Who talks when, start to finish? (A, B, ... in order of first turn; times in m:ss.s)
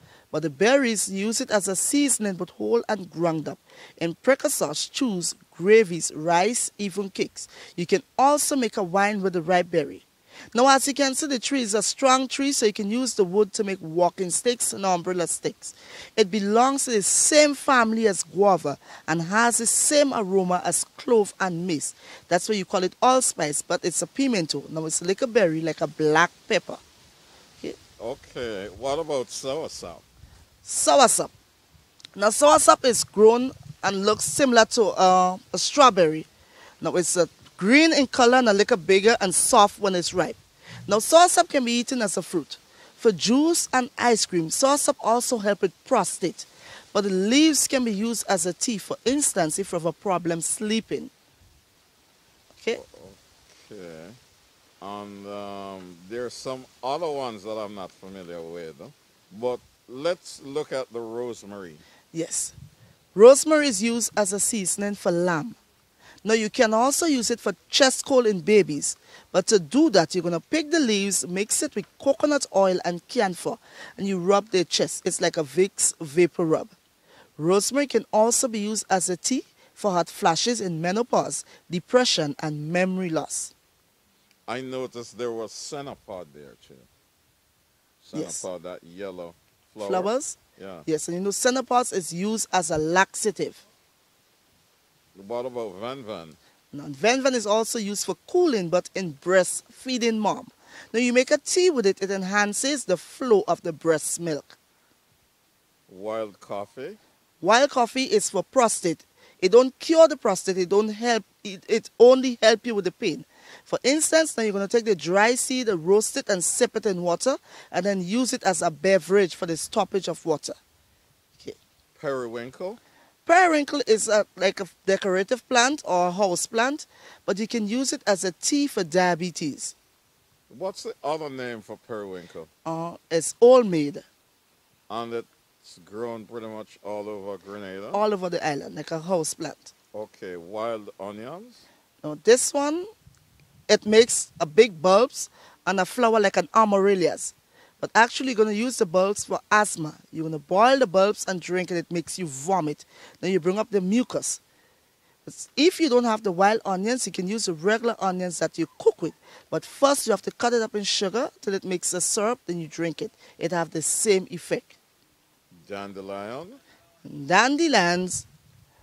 0:00.3-0:26.8 A
0:28.0-0:30.0 B
0:30.6-0:31.3 A
0:32.2-0:36.3 A
0:36.8-0:51.1 A
0:52.7-0:54.2 B
0:54.8-1:01.8 B
1:02.1-1:02.6 A
1:03.2-1:05.6 A
1:06.2-1:16.8 A
1:17.4-1:23.5 A
1:24.5-1:26.9 B
1:28.0-1:30.9 B
1:28.2-1:28.4 A
1:29.8-1:33.6 A
1:35.2-1:36.4 B
1:36.7-1:44.6 A
1:45.9-1:47.0 B
1:47.4-2:00.6 A
2:02.0-2:02.8 B
2:03.2-2:09.8 A
2:10.5-2:12.5 B
2:12.6-2:14.0 A
2:14.9-2:18.0 B
2:17.9-2:19.7 A
2:19.9-2:21.6 B
2:22.0-2:22.9 A
2:23.7-2:34.4 A
2:35.2-2:44.8 A
2:45.6-2:46.6 B
2:47.0-2:48.3 A